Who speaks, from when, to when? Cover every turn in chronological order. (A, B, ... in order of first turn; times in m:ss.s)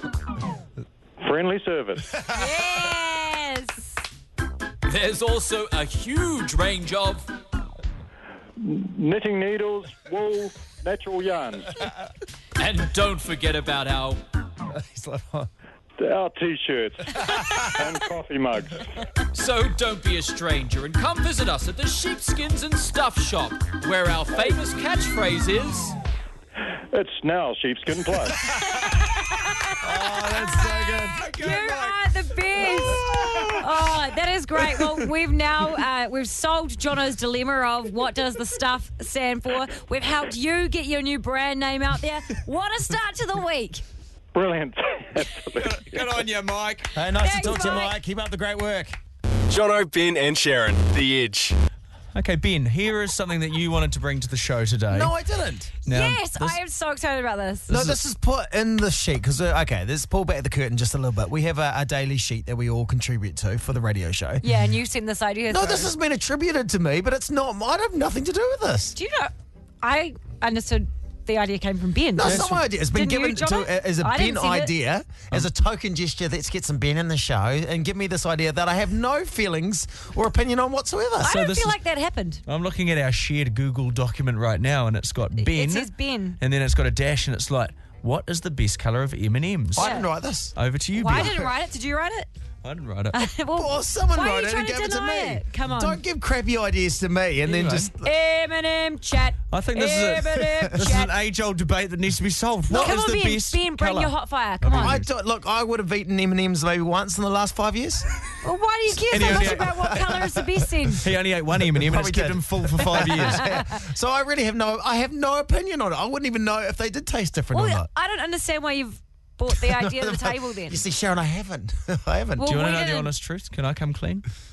0:01.2-0:02.1 A
0:02.3-0:04.0 B
0:04.9-0:07.3 C
0:08.6-0:11.8 A
0:12.6-0:14.2 C
0:14.7-0:15.5 D
0:16.0-0:18.9 A
0:17.2-0:17.7 D
0:19.3-0:26.0 C
0:26.9-0:28.4 A
0:28.8-0:43.8 B
0:29.8-0:31.3 D
0:30.7-0:31.9 E
0:32.6-0:33.6 E
0:33.0-0:33.4 D
0:44.3-0:46.1 A
0:45.6-0:47.0 E
0:47.0-0:49.0 D
0:47.2-0:48.0 B
0:49.5-0:51.6 F
0:52.2-0:55.1 E
0:54.9-0:55.7 D
0:55.9-0:56.6 E
0:55.9-0:57.7 B
0:57.7-0:58.0 E
0:57.7-1:04.4 D
1:04.4-1:05.9 B
1:05.5-1:09.0 D
1:09.0-1:14.7 B
1:12.2-1:21.4 D
1:12.2-1:12.6 E
1:21.2-1:22.4 B
1:21.3-1:21.8 E
1:22.5-1:29.9 E
1:25.4-1:26.4 B
1:29.8-1:30.6 D
1:29.8-1:30.1 B
1:30.6-1:31.4 E
1:31.0-1:32.3 B
1:31.1-1:31.5 D
1:32.6-1:33.2 E
1:33.1-1:36.0 B
1:33.5-1:38.1 D
1:37.4-1:37.9 E
1:38.0-1:41.1 B
1:39.5-1:45.0 E
1:42.7-1:45.0 B
1:44.8-1:48.1 D
1:48.4-1:51.0 B
1:49.1-1:50.8 D
1:49.1-1:49.9 E
1:51.0-1:53.4 E
1:51.6-1:57.9 D
1:53.3-1:53.7 B
1:57.5-2:00.8 B
1:59.6-2:02.7 D
2:02.4-2:03.1 B
2:02.4-2:04.2 E